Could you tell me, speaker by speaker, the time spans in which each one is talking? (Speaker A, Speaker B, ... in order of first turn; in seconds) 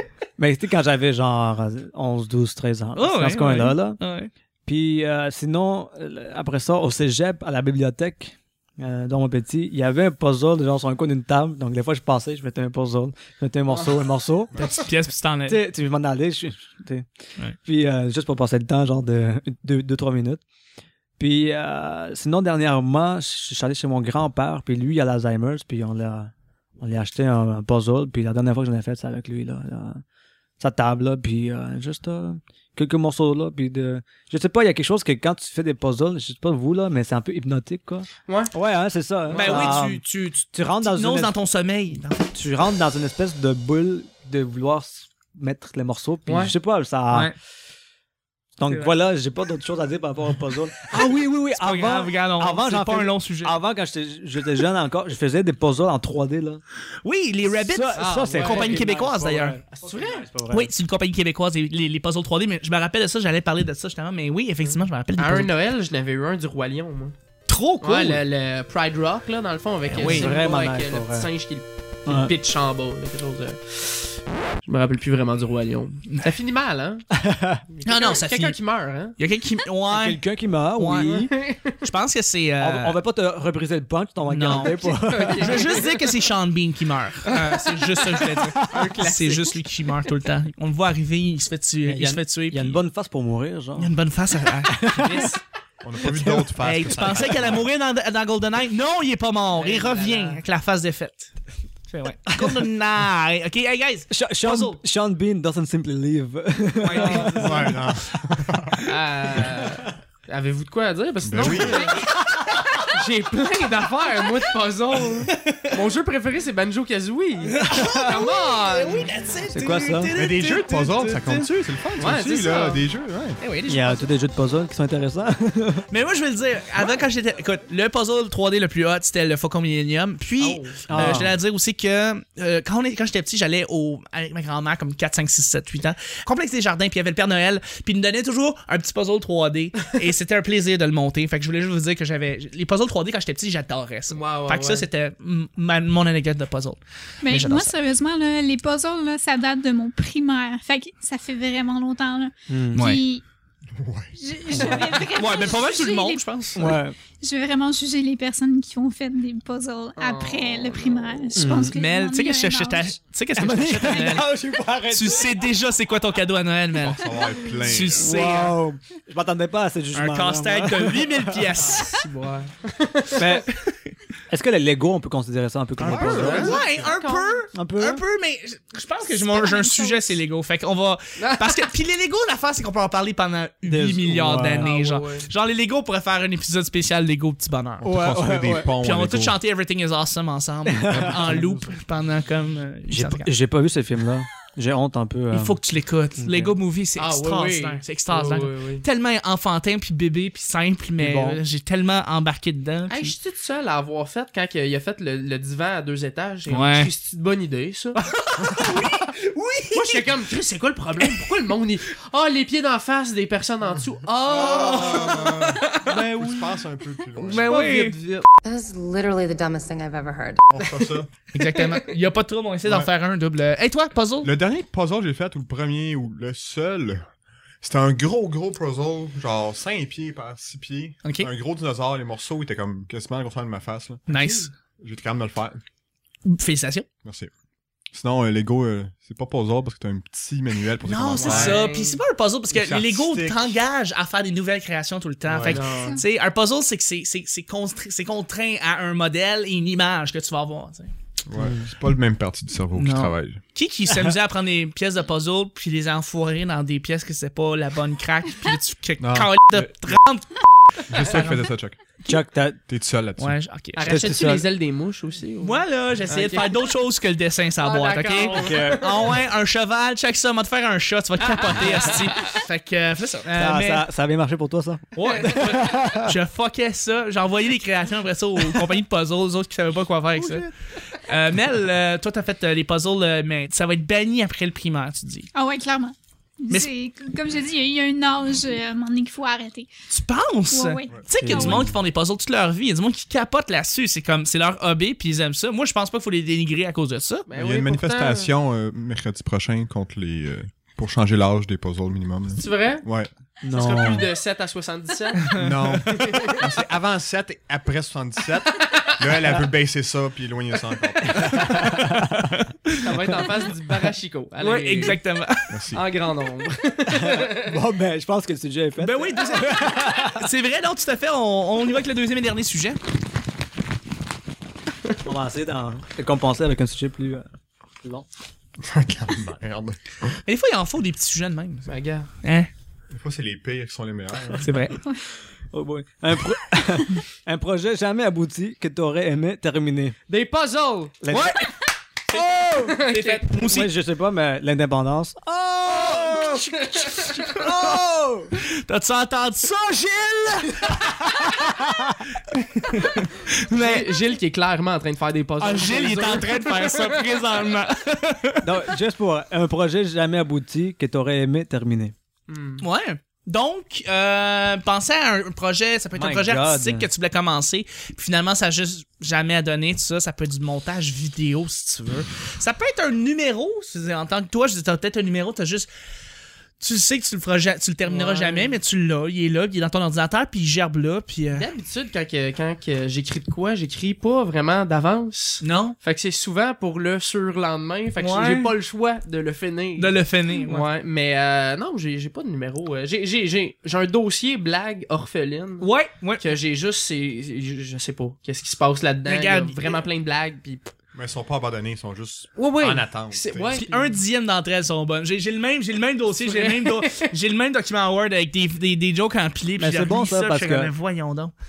Speaker A: 0.4-4.0, 4.7-14.7, 15.5-20.4, 21.2-30.0, 30.6-41.3, 42.3-47.3, 48.6-56.6, 57.5-60.8, 70.0-71.3, 72.1-72.3, 77.1-77.6, 79.9-81.3, 82.6-85.9, 91.8-94.0, 94.7-95.3, 96.0-96.5, 102.3-102.7, 104.1-108.0, 117.7-118.0, 119.5-120.1, 123.7-125.9, 130.9-131.3, 152.5-152.8, 156.6-157.0, 161.4-161.8, 163.4-165.4, 168.0-171.6, 173.2-173.5, 174.3-176.6, 177.5-178.0, 183.7-184.7, 187.8-188.7, 190.7-191.7, 192.9-195.6, 196.2-196.6, 201.0-201.4, 251.4-251.7, 262.1-262.6, 263.9-264.5, 268.3-269.0, 273.3-276.1, 291.2-291.7, 303.4-304.1, 311.1-312.3, 316.9-320.3, 325.0-327.3, 335.5-340.0, 341.0-341.5, 342.1-342.8, 343.4-348.4, 350.6-352.1, 358.4-361.9, 366.0-366.9, 409.6-410.7
Speaker B: 3.0-4.3, 14.6-15.6, 39.3-42.2, 48.7-48.9, 50.9-53.6, 57.0-59.6, 60.5-65.6, 67.5-68.2, 69.9-70.4, 76.1-76.3, 77.8-78.6, 79.2-80.2, 80.8-83.0, 84.3-92.8, 93.8-94.9, 96.6-101.3, 101.9-104.8, 106.8-107.8, 111.4-112.8, 115.3-115.7, 117.5-121.7, 123.4-124.1, 125.9-147.7, 152.8-153.0, 155.0-156.8, 161.7-164.3, 164.9-167.1, 167.6-168.6, 169.9-172.0, 176.2-187.9, 188.8-193.3, 195.3-203.2, 206.5-206.9, 208.0-210.1, 211.0-211.2, 214.3-215.4, 217.2-218.0, 221.3-224.3, 231.0-231.3, 234.1-234.5, 236.3-236.9, 240.8-250.9, 252.8-261.5, 263.2-264.1, 265.4-273.9, 274.9-285.3, 289.9-297.3, 305.3-305.8, 311.3-312.9, 314.4-315.6, 318.8-322.8, 330.3-331.7, 332.2-332.5, 334.4-334.8, 341.1-341.5, 342.7-343.7, 348.4-351.0, 352.3-353.9, 355.4-358.5, 362.6-375.7, 376.6-381.5, 385.4-385.8, 388.0-388.5, 389.8-390.7, 395.6-396.2, 399.1-399.8, 403.5-411.3
Speaker C: 13.7-14.0, 38.3-38.5, 39.3-39.8, 46.3-46.5, 58.0-59.0, 59.7-60.3, 64.6-67.2, 67.8-77.1, 77.7-79.2, 81.0-81.8, 84.8-86.1, 87.2-89.9, 94.9-95.4, 99.5-100.4, 107.0-107.4, 108.9-112.0, 112.8-119.1, 122.0-122.8, 130.4-131.1, 144.1-144.9, 160.0-161.4, 171.7-173.4, 175.8-177.4, 181.2-181.7, 184.6-185.3, 197.0-198.8, 202.9-208.0, 209.7-216.6, 217.2-218.3, 241.1-242.0, 245.4-246.0, 263.8-266.6, 267.6-269.2, 271.6-272.0, 297.3-298.3, 302.4-302.9, 303.5-306.4, 312.8-315.0, 315.7-317.6, 331.7-332.1, 340.1-341.0, 342.6-343.3, 345.9-347.3, 353.5-357.2, 362.3-362.6, 377.8-378.6, 381.3-395.7, 396.2-400.7, 402.4-404.0, 406.2-407.1
Speaker D: 95.8-97.7, 107.4-108.9, 111.2-112.0, 120.1-123.4, 153.8-155.1, 166.8-168.1, 175.8-177.0, 187.8-189.4, 190.9-191.2, 214.2-217.5, 220.5-221.1, 222.6-222.9, 224.2-227.1, 227.6-234.1, 234.8-235.6, 237.0-237.3, 237.9-241.7, 242.5-243.6, 245.3-245.7, 251.3-253.4, 259.0-260.0, 260.9-261.8, 262.7-263.4, 290.9-291.7, 297.4-303.1, 305.4-311.7, 315.5-315.8, 328.6-330.2, 332.9-334.5, 400.9-403.6
Speaker E: 147.2-153.2, 154.2-163.0, 179.1-180.2, 285.3-289.7, 290.5-291.7
Speaker F: 218.4-220.4